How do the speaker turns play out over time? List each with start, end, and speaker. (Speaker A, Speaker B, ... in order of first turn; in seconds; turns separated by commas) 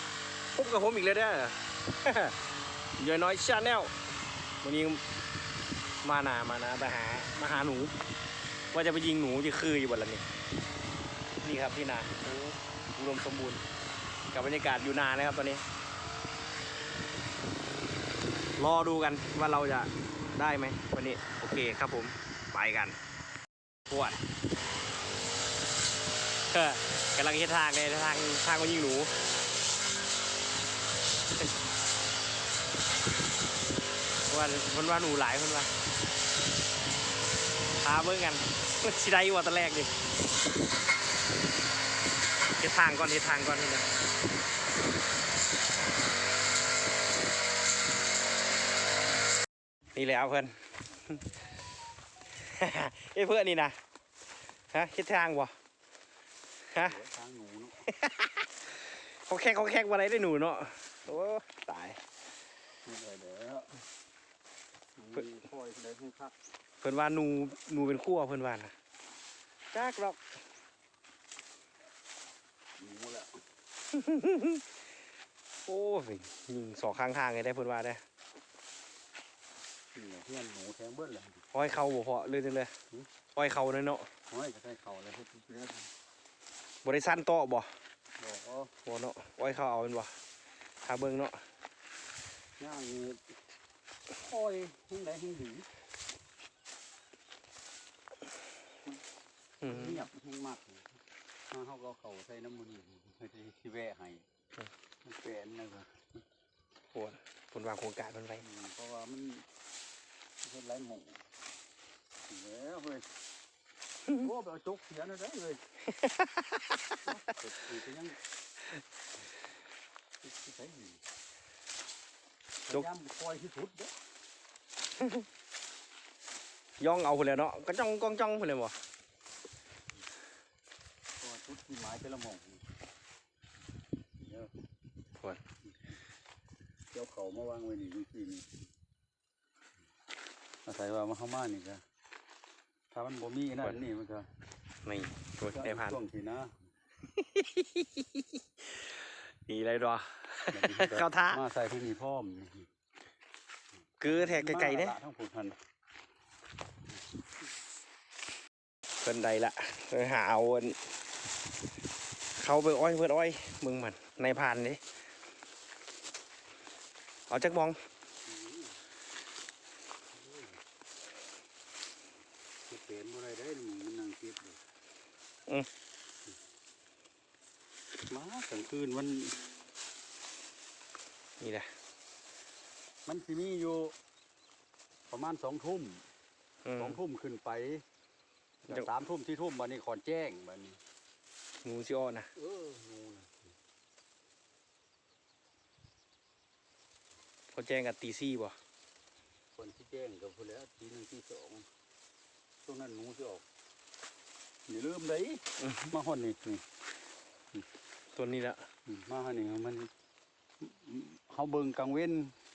Speaker A: 0.5-2.4, Speaker A: 3.0-3.9, Speaker A: 4.6-5.0, Speaker A: 6.0-7.9, Speaker A: 8.7-10.2, Speaker A: 11.4-13.6, Speaker A: 14.3-15.6, Speaker A: 18.6-22.9, Speaker A: 23.9-24.2, Speaker A: 26.5-29.1, Speaker A: 34.3-35.7, Speaker A: 37.8-39.9, Speaker A: 42.6-43.9, Speaker A: 50.0-50.5, Speaker A: 52.4-53.8, Speaker A: 54.7-55.5, Speaker B: 56.8-57.8, Speaker A: 57.9-58.5, Speaker A: 59.3-62.0, Speaker B: 62.8-63.7, Speaker B: 65.0-66.3, Speaker A: 66.8-68.7, Speaker A: 69.7-70.2, Speaker B: 72.8-73.4, Speaker A: 73.9-74.6, Speaker A: 75.7-78.0, Speaker B: 80.0-81.4, Speaker A: 81.5-82.7, Speaker A: 83.3-84.1, Speaker B: 84.3-85.9, Speaker A: 86.8-87.7, Speaker B: 88.2-88.7, Speaker A: 88.9-90.1, Speaker A: 90.8-91.4, Speaker B: 92.6-93.2, Speaker B: 94.2-95.7, Speaker A: 99.6-100.1, Speaker B: 99.6-100.9, Speaker B: 101.5-104.2, Speaker B: 105.0-106.0, Speaker A: 106.9-108.5, Speaker B: 108.4-109.5, Speaker B: 110.4-111.2, Speaker B: 112.3-113.1, Speaker B: 114.2-115.6, Speaker A: 116.0-116.8, Speaker B: 117.1-118.2, Speaker B: 120.2-121.0, Speaker B: 122.7-123.9, Speaker A: 126.8-128.8, Speaker B: 131.2-132.6, Speaker B: 134.2-134.5, Speaker B: 136.9-138.5, Speaker B: 140.7-141.8, Speaker B: 142.9-144.3, Speaker A: 144.8-146.0, Speaker B: 145.5-146.5, Speaker A: 147.2-148.9, Speaker A: 149.5-151.4, Speaker B: 150.5-152.7, Speaker A: 154.0-155.0, Speaker B: 154.0-155.6, Speaker A: 159.0-160.8, Speaker A: 162.4-164.8, Speaker A: 167.3-167.8, Speaker B: 168.3-168.7, Speaker B: 170.2-170.6, Speaker B: 172.7-174.6, Speaker B: 178.1-179.4, Speaker A: 181.4-181.7, Speaker B: 183.1-183.9, Speaker B: 185.1-186.1, Speaker A: 186.7-187.0, Speaker B: 186.8-187.8, Speaker B: 188.7-190.8, Speaker A: 191.6-192.3, Speaker B: 192.3-193.4, Speaker A: 197.5-198.5, Speaker B: 199.6-201.7, Speaker B: 202.7-203.4, Speaker B: 204.7-206.6, Speaker A: 205.6-205.9, Speaker A: 208.2-208.6, Speaker B: 208.9-209.9, Speaker B: 210.6-212.3